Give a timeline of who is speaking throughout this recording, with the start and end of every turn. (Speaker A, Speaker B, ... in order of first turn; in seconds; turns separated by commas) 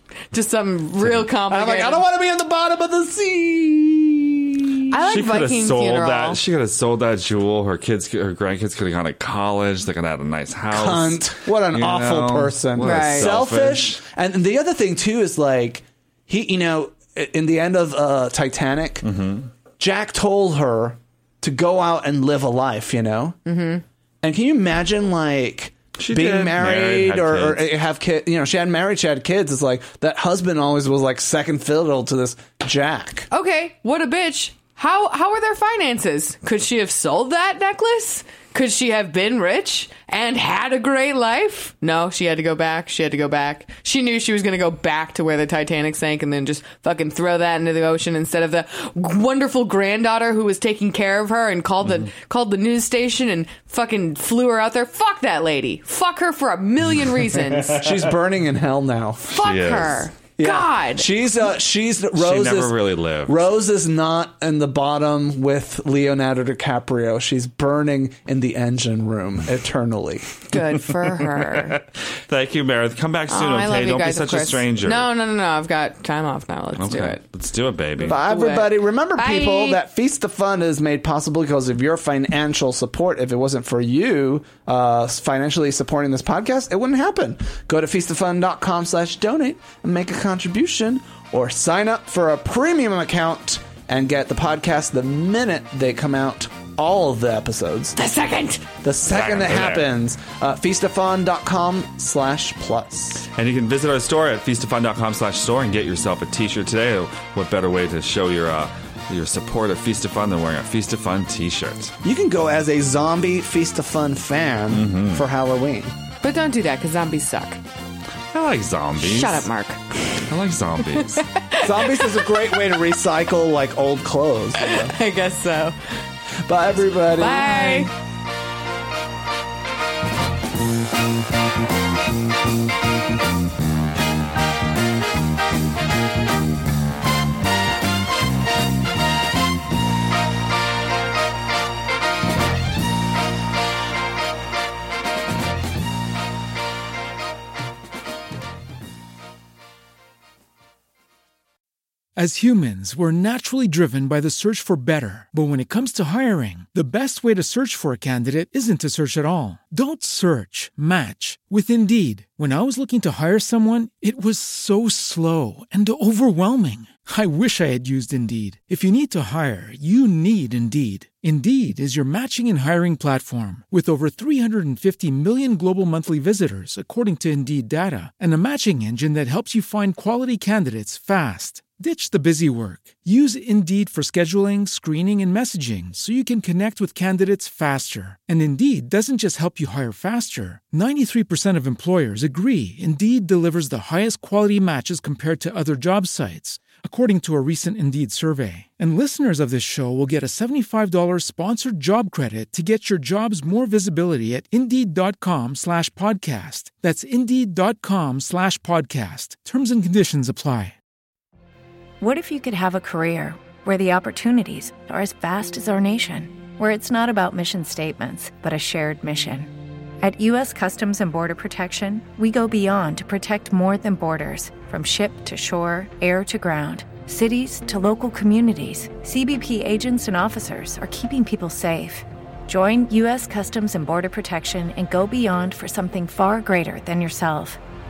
Speaker A: 0.3-2.0, Speaker B: 1.5-5.0, Speaker A: 4.9-6.4, Speaker C: 5.0-14.0, Speaker B: 10.7-19.1, Speaker A: 12.8-13.3, Speaker C: 19.0-19.5, Speaker B: 19.8-23.4, Speaker A: 23.4-23.8, Speaker B: 24.2-33.3, Speaker C: 26.0-27.6, Speaker A: 33.3-57.8, Speaker B: 57.7-59.4, Speaker A: 59.3-61.1, Speaker C: 59.4-60.1, Speaker B: 60.4-70.4, Speaker C: 62.1-63.4, Speaker A: 70.5-71.8, Speaker C: 71.3-75.1, Speaker A: 73.3-77.2, Speaker C: 76.8-78.2, Speaker B: 78.0-98.0, Speaker A: 78.0-79.8, Speaker A: 98.0-98.7, Speaker B: 98.8-103.3, Speaker C: 99.1-99.9, Speaker C: 103.3-112.0, Speaker B: 112.0-116.0, Speaker C: 114.7-115.2, Speaker A: 116.2-117.6, Speaker C: 118.3-119.5, Speaker A: 119.0-120.2, Speaker C: 120.3-121.2, Speaker A: 120.9-122.7, Speaker B: 121.6-124.9, Speaker A: 124.6-125.8, Speaker B: 126.5-127.9, Speaker A: 127.1-127.9, Speaker D: 152.2-210.7, Speaker E: 212.0-237.6